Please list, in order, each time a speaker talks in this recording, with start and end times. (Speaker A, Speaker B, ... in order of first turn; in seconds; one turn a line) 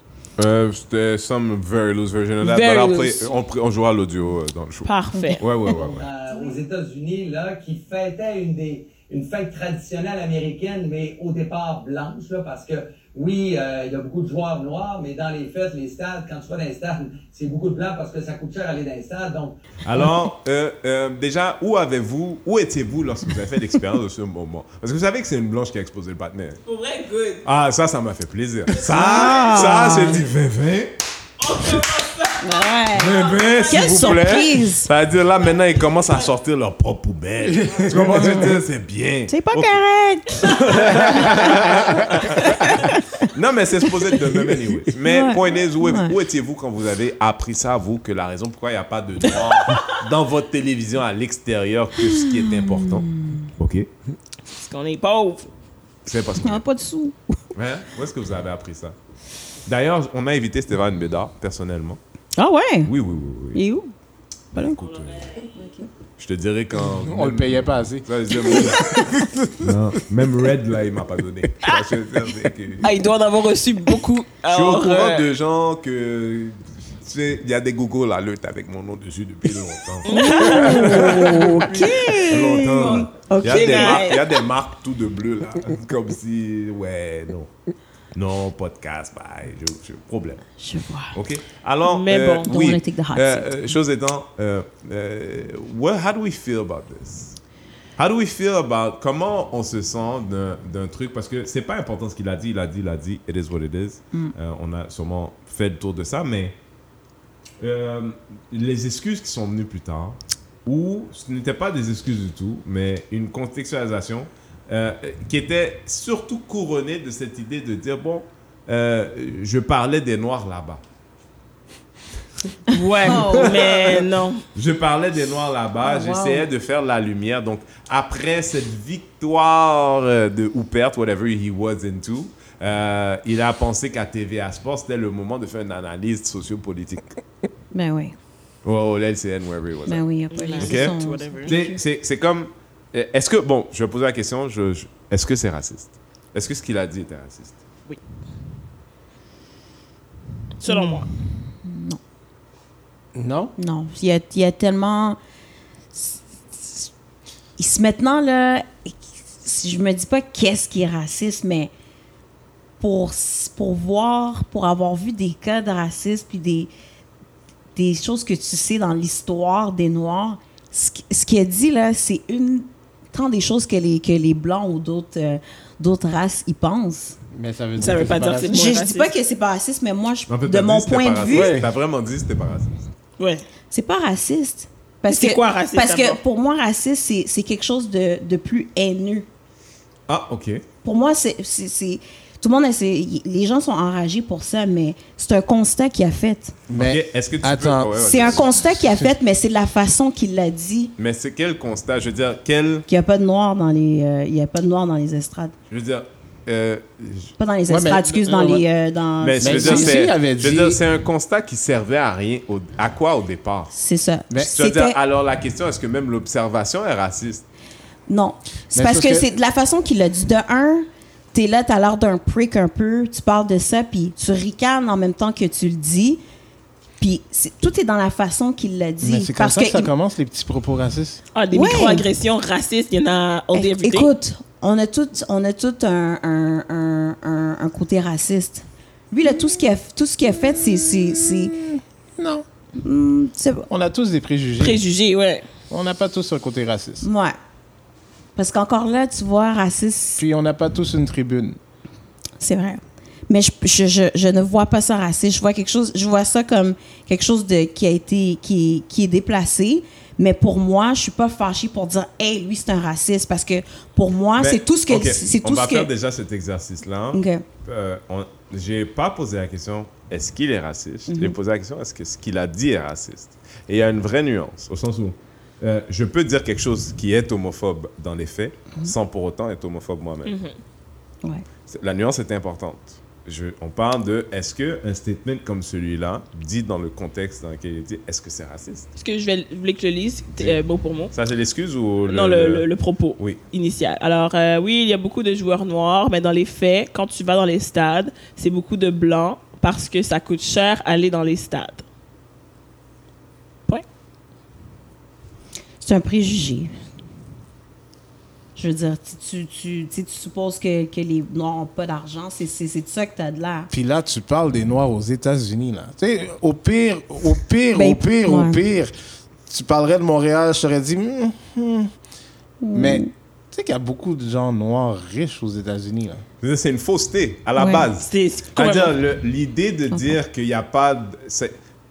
Speaker A: 0.4-6.1
Speaker B: 2.4-3.3
Speaker B: 4.8-5.4
Speaker C: 5.1-5.6
Speaker D: 5.7-19.6
Speaker C: 6.3-6.6
Speaker A: 19.8-26.6
Speaker B: 26.7-27.4
Speaker A: 27.4-31.0
Speaker B: 28.8-29.7
Speaker C: 28.8-30.3
Speaker B: 31.4-34.3
Speaker C: 32.4-34.9
Speaker A: 33.0-39.8
Speaker E: 37.6-38.5
Speaker C: 39.3-41.5
Speaker A: 40.4-53.9
Speaker C: 42.6-42.9
Speaker C: 45.0-46.2
Speaker C: 52.0-53.5
Speaker B: 54.5-55.5
Speaker A: 56.1-56.6
Speaker C: 56.4-57.4
Speaker A: 57.5-59.0
Speaker A: 59.7-62.0
Speaker C: 62.4-62.9
Speaker A: 62.9-63.6
Speaker C: 63.5-63.9
Speaker C: 64.5-64.8
Speaker A: 64.6-65.3
Speaker C: 65.5-65.9
Speaker A: 66.2-69.0
Speaker E: 66.8-69.6
Speaker A: 69.6-72.9
Speaker B: 72.8-75.3
Speaker A: 74.5-87.5
Speaker B: 80.0-81.5
Speaker C: 80.1-84.1
Speaker B: 83.4-84.3
Speaker A: 88.2-90.5
Speaker C: 90.6-91.2
Speaker A: 91.1-97.4
Speaker B: 91.8-92.5
Speaker C: 92.5-93.7
Speaker A: 98.0-106.6
Speaker A: 107.6-120.8
Speaker B: 122.7-124.4
Speaker C: 123.0-123.8
Speaker A: 123.1-123.8
Speaker A: 124.5-137.1
Speaker C: 125.8-126.5
Speaker C: 137.7-138.2
Speaker A: 138.6-140.0
Speaker C: 139.9-141.8
Speaker B: 140.3-141.5
Speaker A: 140.6-147.6
Speaker B: 150.6-151.1
Speaker C: 150.7-151.1
Speaker C: 151.6-152.0
Speaker E: 153.2-153.5
Speaker C: 153.6-155.2
Speaker C: 155.9-156.9
Speaker C: 157.6-161.7
Speaker C: 162.8-166.7
Speaker C: 167.8-177.2
Speaker E: 177.3-178.8
Speaker B: 177.8-179.1
Speaker C: 178.5-181.6
Speaker A: 180.3-182.7
Speaker E: 181.3-181.7
Speaker B: 183.2-183.4
Speaker C: 183.7-189.3
Speaker B: 185.1-186.2
Speaker A: 190.1-190.7
Speaker C: 190.8-196.6
Speaker E: 196.7-198.0
Speaker A: 196.8-198.6
Speaker C: 198.0-200.9
Speaker A: 201.0-202.9
Speaker C: 202.9-205.5
Speaker A: 205.7-207.3
Speaker C: 207.4-210.0
Speaker E: 207.7-208.6
Speaker A: 209.2-213.7
Speaker E: 209.4-210.8
Speaker C: 213.7-215.0
Speaker A: 214.5-217.4
Speaker C: 218.1-226.2
Speaker E: 218.7-219.3
Speaker C: 227.0-229.9
Speaker E: 229.0-231.2
Speaker B: 231.3-234.1
Speaker C: 231.5-232.1
Speaker C: 233.5-241.6
Speaker E: 241.7-242.4
Speaker C: 242.8-243.7
Speaker E: 243.7-244.8
Speaker B: 244.6-245.4
Speaker E: 245.7-247.1
Speaker C: 247.0-247.4
Speaker C: 248.4-250.2
Speaker E: 250.2-251.6
Speaker C: 252.4-265.9
Speaker A: 264.4-280.4
Speaker C: 267.1-267.4
Speaker C: 271.1-271.4
Speaker B: 280.2-280.5
Speaker A: 281.7-288.9
Speaker B: 289.0-291.1
Speaker A: 291.1-292.7
Speaker B: 292.1-301.8
Speaker C: 305.8-306.7
Speaker C: 308.6-313.7
Speaker E: 313.7-318.9
Speaker C: 317.7-318.6
Speaker E: 319.5-321.9
Speaker C: 322.6-323.1
Speaker E: 322.7-326.2
Speaker A: 326.4-331.6
Speaker C: 327.6-327.9
Speaker B: 328.1-328.9